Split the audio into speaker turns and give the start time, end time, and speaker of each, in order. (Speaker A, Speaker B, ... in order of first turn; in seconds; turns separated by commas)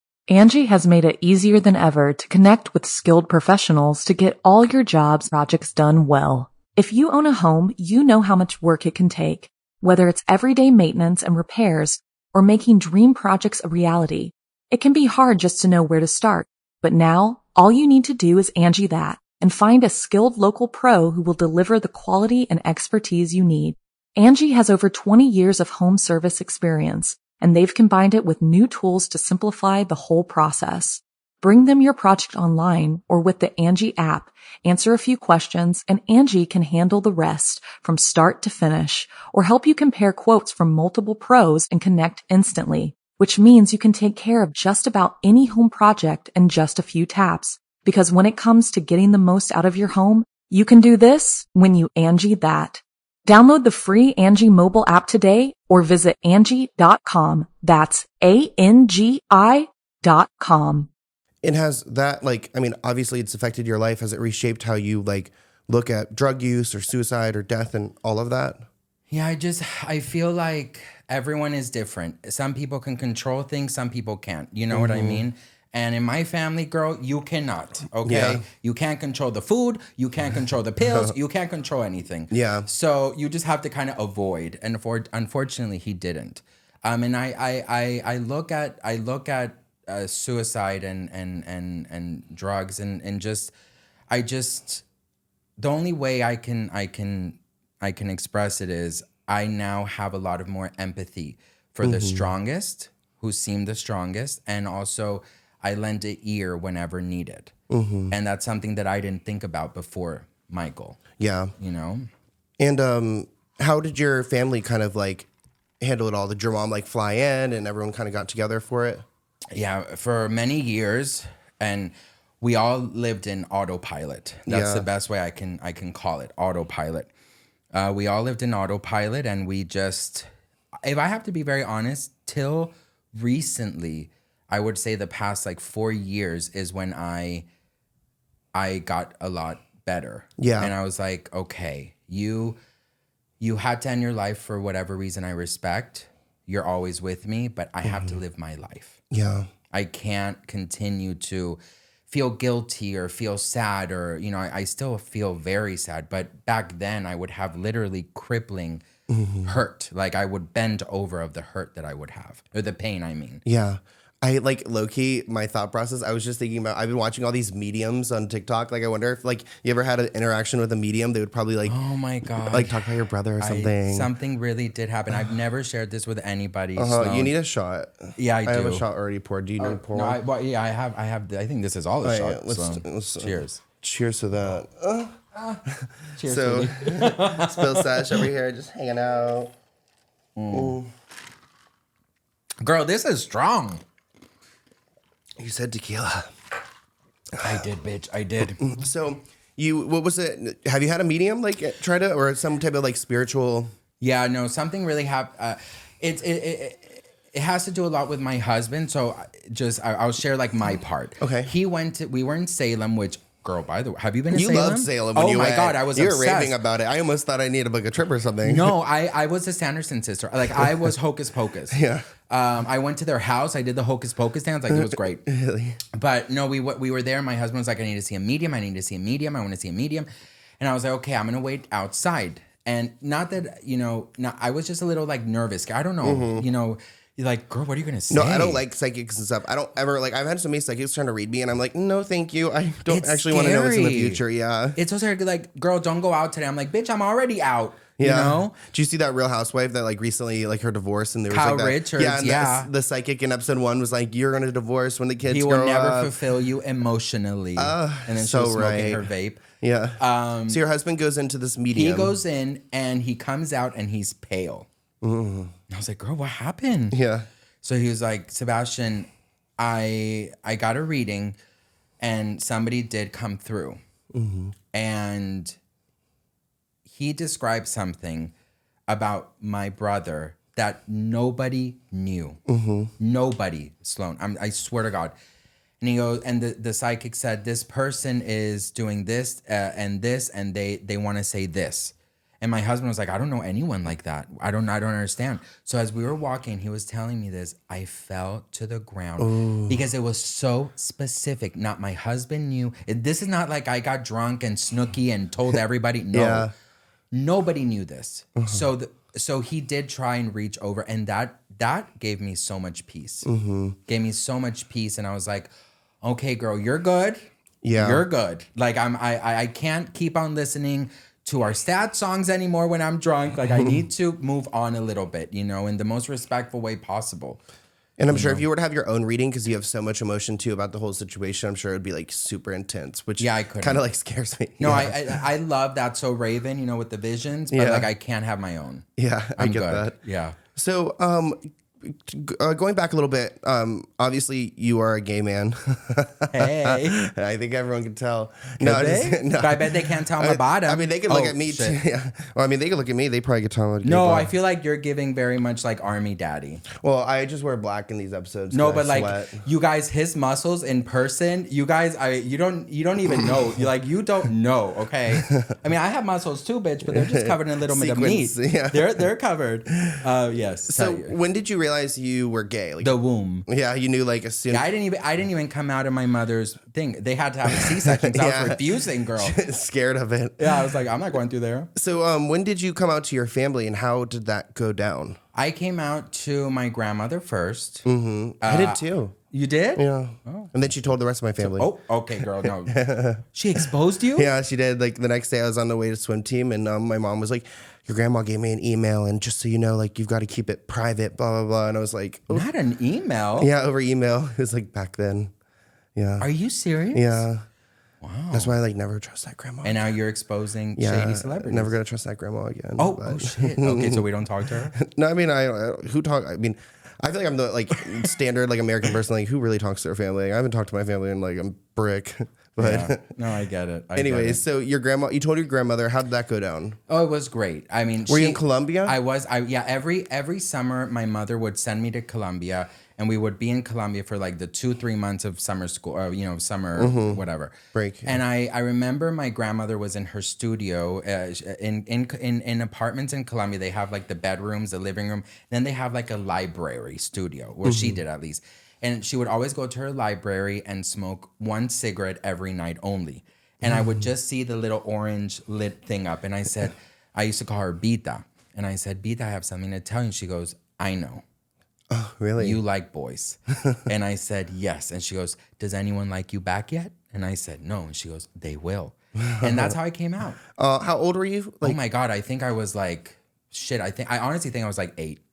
Speaker A: 0.3-60.9, Speaker B: 61.4-68.7, Speaker C: 69.1-93.5, Speaker B: 74.7-75.2, Speaker B: 78.0-78.4, Speaker B: 82.3-82.7, Speaker C: 94.1-94.8, Speaker C: 95.6-107.5, Speaker B: 101.8-102.3, Speaker B: 107.7-108.1, Speaker C: 108.1-111.0, Speaker B: 111.2-111.5, Speaker C: 111.6-112.1, Speaker B: 112.6-115.3, Speaker B: 115.8-119.0, Speaker C: 119.5-127.1, Speaker B: 124.5-124.9, Speaker C: 127.7-130.3, Speaker C: 130.8-137.5, Speaker C: 138.5-142.6, Speaker B: 140.4-140.7, Speaker C: 143.4-149.0, Speaker B: 147.8-148.2, Speaker B: 149.1-149.5, Speaker C: 149.7-158.8, Speaker B: 159.1-159.6, Speaker C: 159.5-163.4, Speaker B: 163.4-171.8, Speaker C: 171.7-177.3, Speaker B: 172.4-174.1, Speaker B: 176.8-180.2, Speaker C: 178.2-178.8, Speaker C: 179.6-183.6, Speaker B: 182.0-189.5, Speaker C: 185.3-185.6, Speaker C: 186.2-188.3, Speaker C: 190.4-190.8, Speaker B: 190.5-190.9, Speaker C: 192.6-193.8, Speaker B: 195.4-196.3, Speaker C: 197.4-198.7, Speaker B: 198.6-203.7, Speaker C: 204.0-216.6, Speaker B: 211.2-211.5, Speaker B: 214.3-218.7, Speaker C: 218.4-225.2, Speaker B: 221.7-222.1, Speaker B: 224.7-225.8, Speaker C: 225.9-230.1, Speaker C: 230.6-238.6, Speaker B: 236.0-236.5, Speaker B: 238.1-244.8, Speaker C: 242.9-244.2, Speaker C: 244.8-248.6, Speaker B: 248.0-256.1, Speaker C: 251.3-252.7, Speaker C: 255.3-259.4, Speaker B: 257.6-259.1, Speaker B: 259.6-262.1, Speaker C: 260.0-260.6, Speaker C: 261.7-264.7, Speaker B: 265.0-265.5, Speaker C: 265.7-267.0, Speaker B: 266.9-267.3, Speaker C: 267.6-271.4, Speaker C: 272.0-273.8, Speaker B: 274.1-274.6, Speaker C: 274.7-275.6, Speaker C: 276.9-278.3, Speaker C: 278.9-282.4, Speaker B: 282.5-282.9, Speaker C: 283.0-285.1, Speaker C: 285.8-306.5, Speaker B: 299.2-299.8, Speaker B: 306.1-306.5, Speaker C: 307.1-313.3, Speaker B: 308.4-308.6, Speaker B: 313.2-313.8, Speaker C: 313.9-315.5, Speaker C: 316.0-327.4, Speaker B: 317.6-318.1, Speaker B: 328.0-335.2, Speaker C: 328.1-328.4, Speaker C: 333.2-333.8, Speaker C: 334.6-338.9, Speaker B: 337.5-337.9, Speaker B: 339.0-340.0, Speaker C: 339.4-340.4, Speaker B: 340.6-354.3, Speaker C: 346.3-347.1, Speaker C: 348.6-351.8, Speaker C: 353.8-356.6, Speaker B: 356.7-359.4, Speaker C: 358.5-371.1, Speaker B: 366.9-369.1, Speaker B: 370.7-372.9, Speaker C: 372.8-373.4, Speaker B: 373.5-374.7, Speaker C: 374.5-379.4, Speaker B: 377.5-378.6, Speaker B: 379.2-380.7, Speaker C: 380.4-381.7, Speaker B: 381.8-385.2, Speaker C: 385.4-387.9, Speaker B: 387.9-389.1, Speaker C: 388.4-390.5, Speaker B: 389.8-391.7, Speaker C: 391.4-394.3, Speaker B: 392.4-393.2, Speaker B: 394.2-402.5, Speaker C: 402.3-403.5, Speaker B: 403.4-405.3, Speaker B: 406.0-406.3, Speaker C: 406.2-407.3, Speaker B: 406.9-407.5, Speaker C: 408.0-408.5, Speaker B: 408.3-409.8, Speaker C: 409.6-411.8, Speaker B: 410.8-414.1, Speaker C: 412.8-414.8, Speaker B: 414.7-423.1, Speaker C: 422.6-424.4, Speaker B: 423.9-426.8, Speaker C: 426.9-437.6, Speaker B: 428.1-429.0, Speaker B: 436.8-437.2, Speaker B: 437.7-438.2, Speaker C: 438.1-461.2, Speaker B: 447.6-448.0, Speaker B: 453.6-454.1, Speaker B: 461.9-462.6, Speaker C: 462.4-470.4, Speaker B: 469.2-469.8, Speaker B: 470.5-471.8, Speaker C: 471.6-475.2